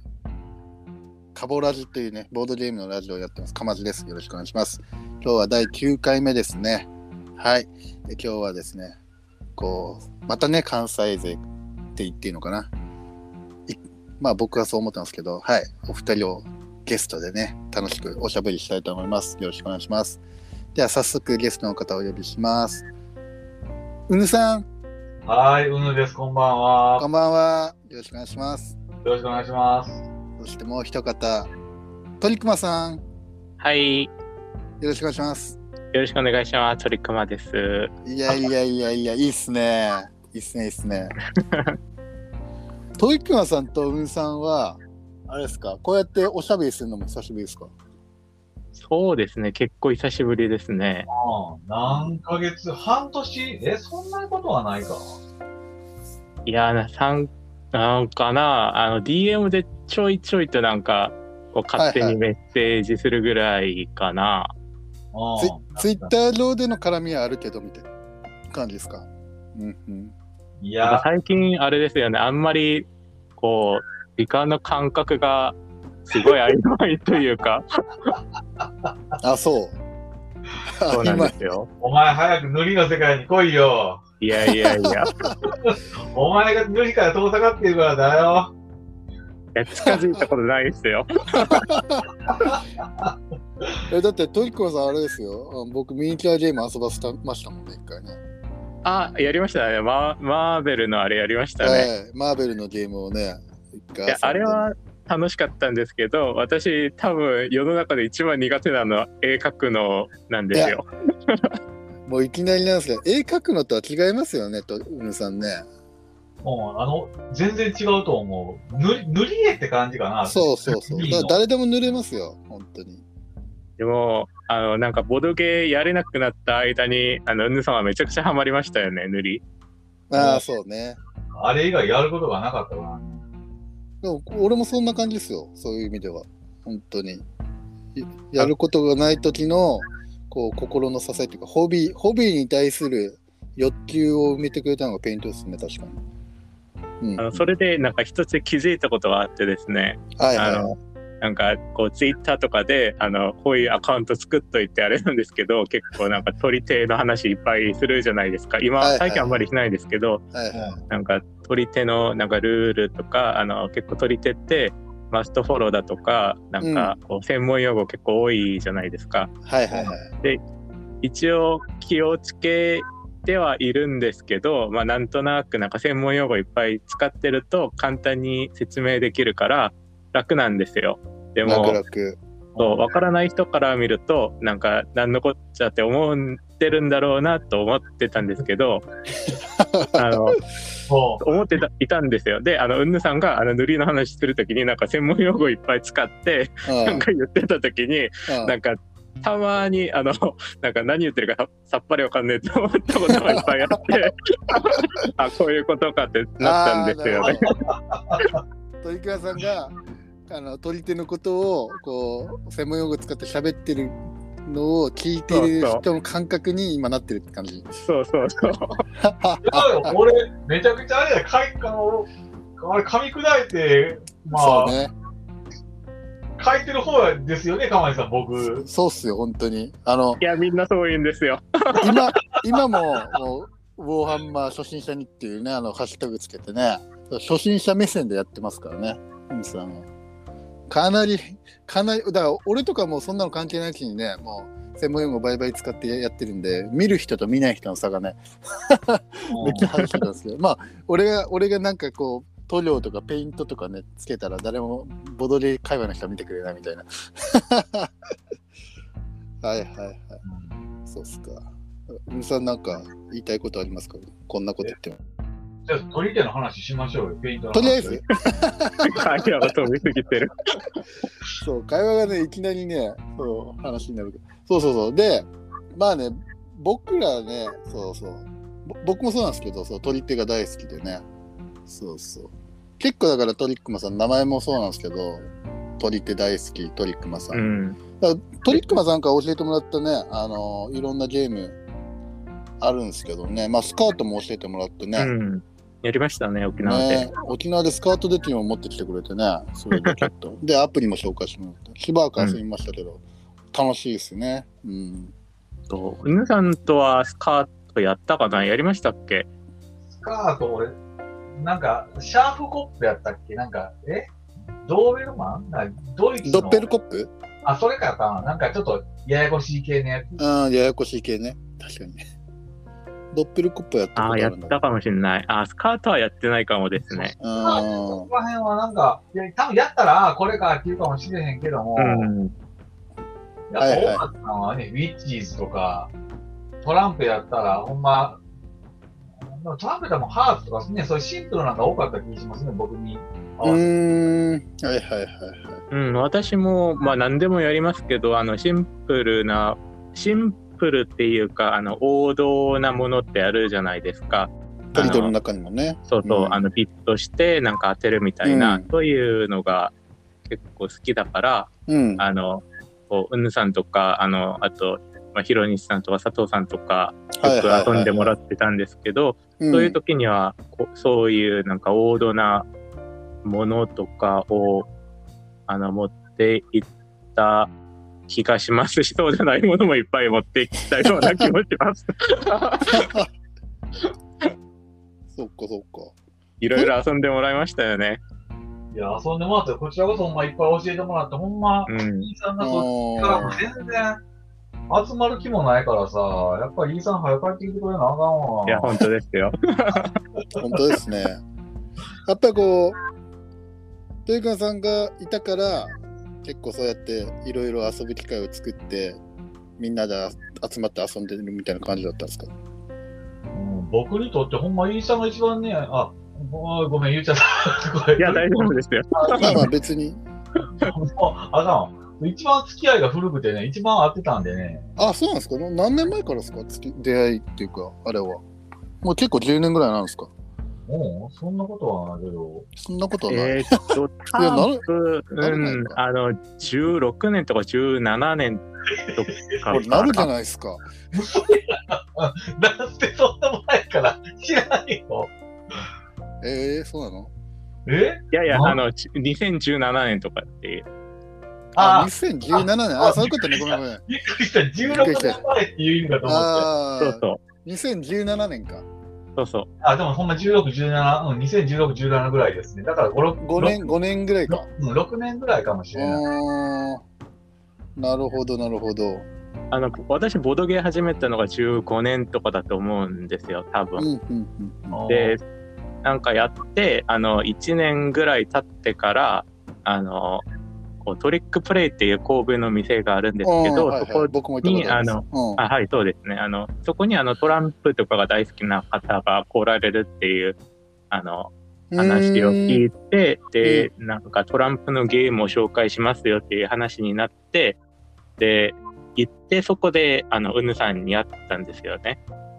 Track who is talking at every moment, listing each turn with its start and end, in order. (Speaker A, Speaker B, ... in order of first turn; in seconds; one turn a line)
Speaker A: 1.3-9.0
Speaker A: 9.6-11.4
Speaker A: 11.9-12.7
Speaker A: 13.7-20.2
Speaker A: 20.7-22.9
Speaker A: 24.1-24.7
Speaker B: 25.2-27.1
Speaker A: 27.0-28.7
Speaker B: 29.0-30.0
Speaker A: 30.4-31.5
Speaker A: 32.2-33.0
Speaker C: 33.6-34.1
Speaker A: 34.8-35.6
Speaker C: 35.9-37.9
Speaker A: 38.0-41.1
Speaker C: 41.4-41.8
Speaker A: 43.0-47.7
Speaker C: 48.8-51.1
Speaker B: 51.1-55.2
Speaker C: 56.5-64.5
Speaker A: 61.8-62.2
Speaker B: 65.1-66.1
Speaker A: 65.4-67.9
Speaker A: 68.5-70.1
Speaker B: 70.6-71.0
Speaker C: 70.8-75.6
Speaker C: 76.1-78.1
Speaker A: 79.2-79.8
Speaker A: 80.8-81.3
Speaker C: 80.9-81.7
Speaker B: 81.8-84.0
Speaker C: 84.2-85.3
Speaker A: 84.4-85.3
Speaker B: 85.5-88.5
Speaker C: 89.5-91.7
Speaker A: 89.8-90.2
Speaker A: 91.3-92.1
Speaker B: 92.4-93.1
Speaker A: 93.9-98.2
Speaker C: 98.8-101.9
Speaker A: 101.6-104.7
Speaker C: 104.1-111.5
Speaker A: 110.5-110.8
Speaker A: 112.0-115.7
Speaker B: 116.4-121.4
Speaker A: 120.2-123.0
Speaker C: 123.8-129.4
Speaker A: 130.1-131.0
Speaker B: 130.1-130.5
Speaker B: 131.3-133.2
Speaker A: 134.0-137.2
Speaker A: 137.9-146.0
Speaker A: 147.0-147.4
Speaker C: 147.2-160.2
Speaker A: 150.2-150.7
Speaker A: 158.8-159.4
Speaker A: 160.3-160.8
Speaker B: 160.5-160.8
Speaker C: 160.9-169.3
Speaker A: 166.6-166.9
Speaker A: 169.4-170.1
Speaker B: 169.7-169.9
Speaker C: 171.0-181.8
Speaker A: 181.4-182.2
Speaker B: 182.5-182.8
Speaker C: 182.6-188.8
Speaker A: 189.6-190.2
Speaker C: 189.9-190.4
Speaker B: 190.9-191.2
Speaker C: 191.2-207.5
Speaker A: 196.7-197.0
Speaker A: 198.3-198.6
Speaker A: 203.1-204.1
Speaker A: 206.4-207.5
Speaker B: 207.9-208.3
Speaker A: 208.8-209.8
Speaker A: 210.3-217.7
Speaker C: 215.3-215.8
Speaker C: 217.8-218.8
Speaker A: 218.9-219.9
Speaker B: 219.4-224.7
Speaker A: 224.3-224.9
Speaker B: 226.4-228.6
Speaker A: 228.4-230.2
Speaker C: 230.2-232.0
Speaker A: 231.8-239.9
Speaker A: 240.7-257.9
Speaker B: 249.3-249.7
Speaker A: 259.4-260.2
Speaker B: 260.2-260.6
Speaker A: 260.9-265.0
Speaker B: 265.7-268.0
Speaker A: 267.5-269.1
Speaker C: 268.8-270.8
Speaker A: 271.4-281.0
Speaker A: 281.7-287.4
Speaker C: 287.3-287.8
Speaker A: 288.0-291.6
Speaker A: 292.6-295.1
Speaker C: 294.9-297.1
Speaker A: 296.6-305.1
Speaker C: 299.8-300.0
Speaker C: 305.7-309.3
Speaker B: 309.9-310.8
Speaker B: 311.4-314.1
Speaker B: 314.6-316.7
Speaker A: 316.2-317.1
Speaker B: 317.4-320.2
Speaker A: 320.2-322.0
Speaker A: 323.1-324.6
Speaker C: 323.9-327.1
Speaker A: 327.2-328.1
Speaker B: 327.4-332.1
Speaker C: 331.8-332.3
Speaker B: 333.5-335.9
Speaker A: 333.6-334.0
Speaker B: 336.6-338.2
Speaker B: 339.3-343.6
Speaker A: 343.4-345.6
Speaker C: 345.7-355.1
Speaker A: 354.7-356.4
Speaker C: 355.9-359.7
Speaker A: 358.2-358.7
Speaker C: 360.3-372.5
Speaker A: 361.7-362.0
Speaker A: 367.2-368.1
Speaker A: 369.4-369.8
Speaker C: 373.2-374.7
Speaker C: 375.5-377.5
Speaker C: 378.1-382.9
Speaker A: 381.0-381.3
Speaker A: 382.7-383.1
Speaker A: 385.1-385.9
Speaker C: 386.4-388.0
Speaker B: 388.7-394.0
Speaker C: 391.7-392.1
Speaker A: 392.4-393.4
Speaker B: 394.7-398.8
Speaker C: 398.5-400.0
Speaker A: 400.4-401.2
Speaker A: 402.1-402.8
Speaker A: 404.1-405.7
Speaker A: 406.2-409.0
Speaker A: 409.6-412.3
Speaker B: 413.3-419.5
Speaker C: 418.0-419.4
Speaker A: 419.1-420.0
Speaker B: 420.6-424.7
Speaker A: 424.8-428.2
Speaker A: 428.8-430.1
Speaker B: 430.7-432.5
Speaker A: 432.6-434.6
Speaker C: 433.1-440.1
Speaker A: 435.2-435.8
Speaker A: 439.5-440.7
Speaker B: 440.9-445.6
Speaker A: 446.2-447.1
Speaker B: 447.6-448.6
Speaker C: 448.1-450.6
Speaker B: 451.6-456.5
Speaker A: 451.6-453.8
Speaker A: 454.6-455.2
Speaker A: 456.0-458.6
Speaker C: 456.8-457.2
Speaker C: 459.1-459.5
Speaker B: 459.6-463.6
Speaker A: 463.2-464.4
Speaker B: 464.3-466.0
Speaker A: 465.7-466.8
Speaker A: 467.8-469.1
Speaker C: 469.5-473.9
Speaker A: 473.8-474.8
Speaker B: 474.7-475.1
Speaker C: 474.9-475.2
Speaker C: 475.8-480.2
Speaker C: 480.8-490.4
Speaker A: 483.2-485.4
Speaker C: 490.9-497.6
Speaker A: 491.7-492.6
Speaker A: 493.4-493.7
Speaker C: 498.2-502.0